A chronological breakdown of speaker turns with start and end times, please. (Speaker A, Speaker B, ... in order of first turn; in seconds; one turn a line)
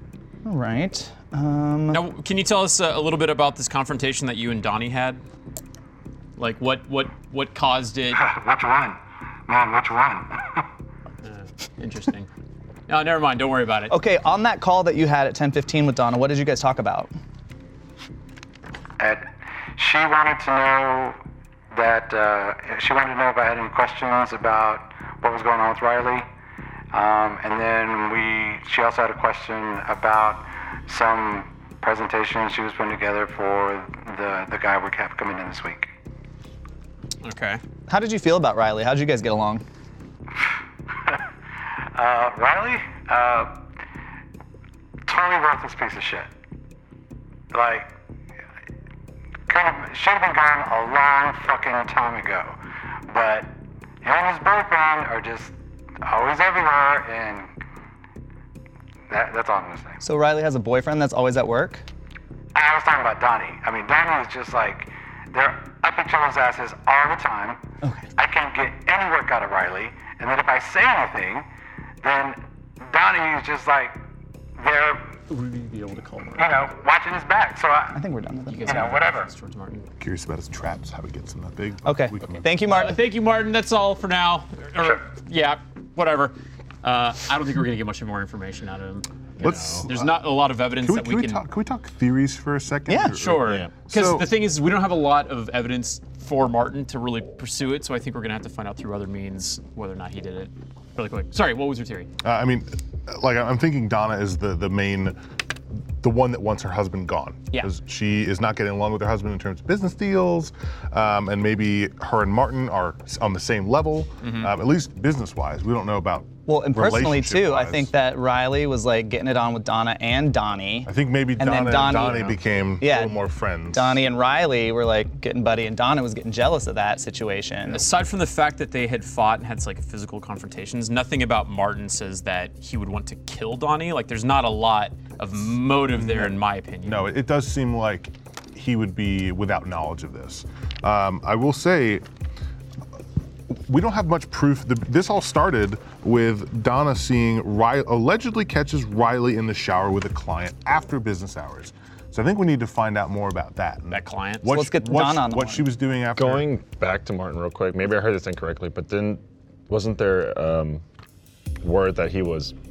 Speaker A: 0.4-2.0
Speaker B: 1.9-5.2
Speaker B: 6.4-8.2
Speaker C: 8.1-10.6
Speaker B: 11.2-12.3
Speaker B: 12.9-13.9
Speaker A: 13.9-17.1
Speaker C: 19.0-21.2
Speaker C: 21.7-26.2
Speaker C: 26.9-35.9
Speaker B: 37.2-37.6
Speaker A: 37.9-39.6
Speaker C: 41.9-43.6
Speaker C: 45.0-46.3
Speaker C: 47.5-47.9
Speaker C: 49.5-52.6
Speaker C: 53.1-57.5
Speaker C: 59.1-60.0
Speaker A: 60.0-61.8
Speaker C: 62.5-67.6
Speaker C: 68.1-71.5
Speaker C: 72.0-74.0
Speaker C: 74.6-75.2
Speaker B: 75.3-76.5
Speaker C: 76.3-78.0
Speaker A: 77.9-79.0
Speaker B: 78.5-79.9
Speaker C: 78.7-79.3
Speaker D: 80.0-82.6
Speaker A: 81.8-83.0
Speaker B: 82.7-91.4
Speaker D: 89.4-90.1
Speaker E: 89.4-89.9
Speaker D: 90.8-94.3
Speaker A: 92.9-93.2
Speaker B: 93.2-102.1
Speaker E: 93.4-93.7
Speaker D: 102.2-105.2
Speaker D: 106.0-117.9
Speaker B: 114.2-114.5
Speaker A: 116.5-127.8
Speaker D: 120.8-124.0
Speaker E: 121.9-122.3
Speaker B: 127.7-137.1
Speaker D: 135.8-142.0
Speaker D: 143.7-156.5
Speaker B: 153.9-154.5
Speaker A: 154.5-155.7
Speaker E: 156.2-160.8
Speaker E: 161.6-162.5